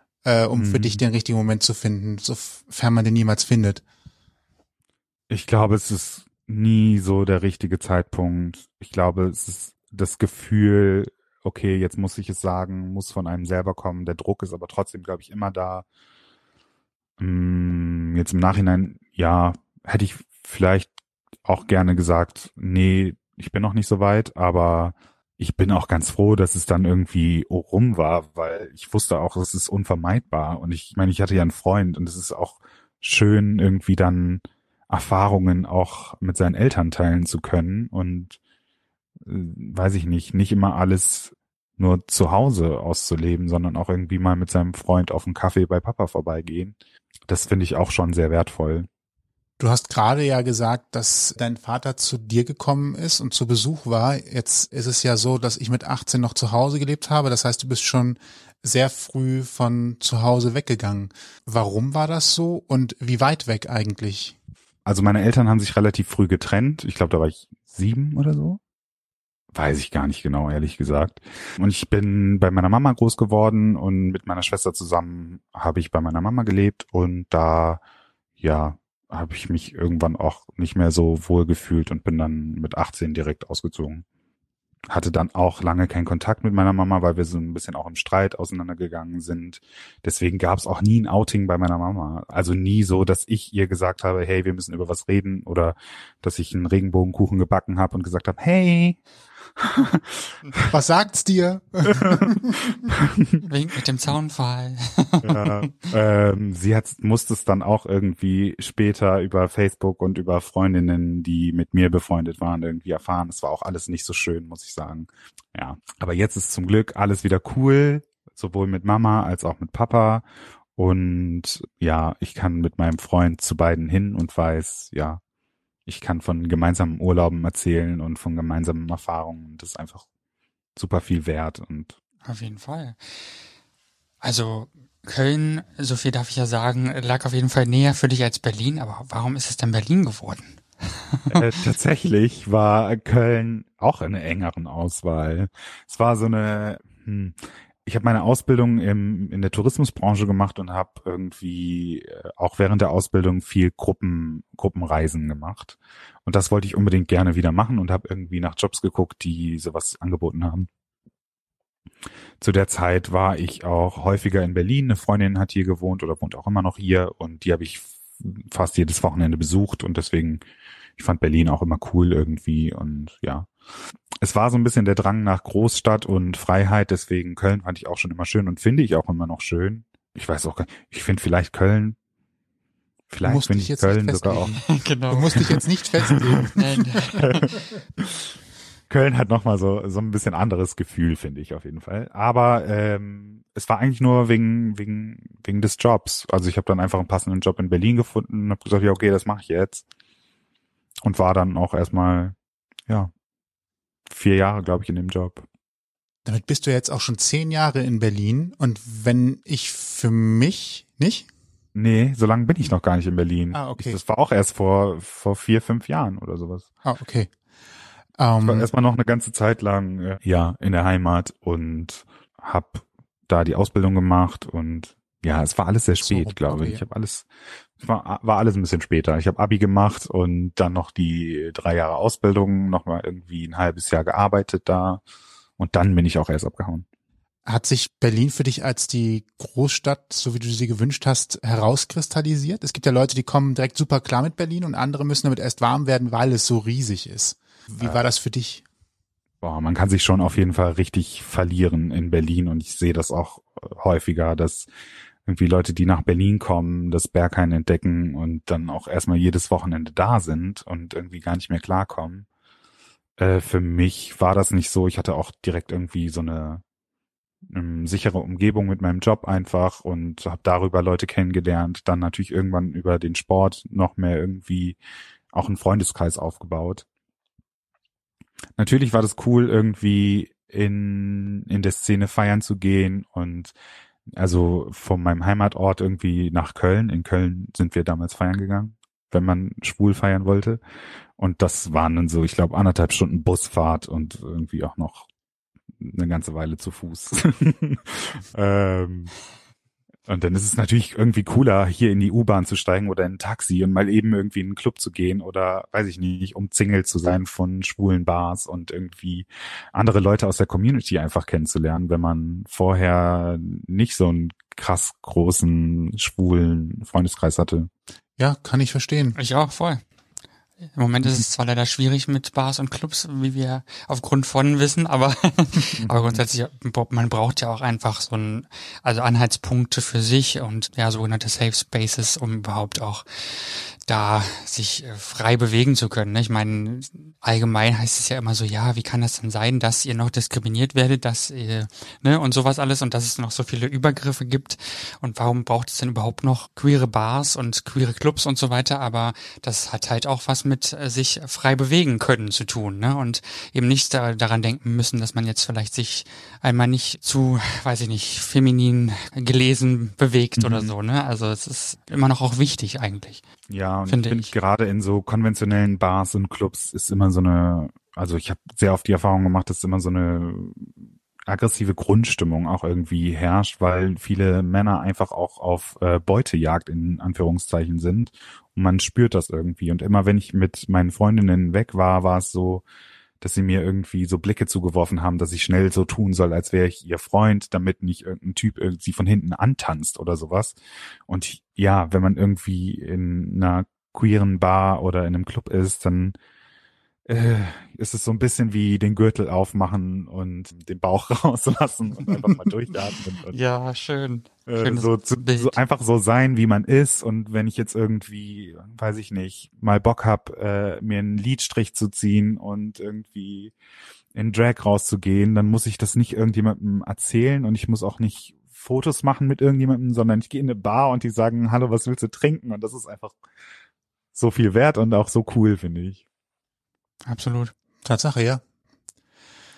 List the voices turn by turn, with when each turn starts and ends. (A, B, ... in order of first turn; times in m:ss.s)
0:00.2-0:03.8 A
0:00.6-0:01.0 B
0:05.3-0:15.8 B
0:17.2-0:20.9 B
0:21.4-0:38.4 B
0:39.2-0:46.8 B
0:47.3-0:48.9 B
0:49.6-1:04.4 A
1:04.9-1:08.6 B
1:09.5-1:17.8 B
1:18.4-1:24.0 B
1:24.9-1:39.0 B
1:39.6-1:40.7 B
1:40.7-1:42.6 A
1:41.9-1:43.4 B
1:43.4-1:45.6 C
1:45.2-2:00.2 B
2:00.8-2:05.2 B
2:05.9-2:10.0 B
2:10.8-2:12.0 B
2:12.2-2:13.3 C
2:14.2-2:21.5 C
2:21.3-2:40.7 B
2:42.4-2:50.4 B
2:51.0-2:53.5 B
2:54.2-3:02.0 B
3:03.1-3:04.6 B
3:03.2-3:04.6 A
3:04.6-3:07.5 C
3:05.1-3:07.0 A
3:07.2-3:08.3 B
3:08.9-3:19.8 B
3:21.0-3:22.4 B
3:24.1-3:25.4 B
3:26.2-3:31.3 A
3:31.8-3:36.7 B
3:33.5-3:34.0 A
3:36.8-3:37.3 A
3:38.2-3:38.7 A
3:38.4-3:47.3 B
3:46.0-3:46.8 A
3:47.8-3:55.0 B
3:55.6-3:56.8 B
3:57.5-4:08.6 A
4:09.4-4:14.7 B
4:15.3-4:22.3 B
4:23.2-4:26.6 B
4:27.5-4:34.8 B
4:35.3-4:36.8 B
4:38.6-4:43.5 B
4:44.2-4:50.6 B
4:51.2-4:55.1 B
4:55.8-4:59.1 B
5:00.1-5:17.7 B
5:18.2-5:19.2 A
5:19.2-5:19.8 C
5:20.7-6:03.2 C
5:25.8-5:26.2 B
6:00.4-6:00.7 B
6:03.5-6:10.7 B
6:03.9-6:04.3 C
6:11.3-6:22.6 B
6:23.2-6:30.6 B
6:31.1-6:36.2 B
6:37.1-6:43.4 B
6:43.3-6:45.6 C
6:44.5-6:53.5 B
6:54.2-7:03.1 B
7:04.2-7:06.0 B
7:07.1-7:07.5 C
7:07.8-7:08.4 A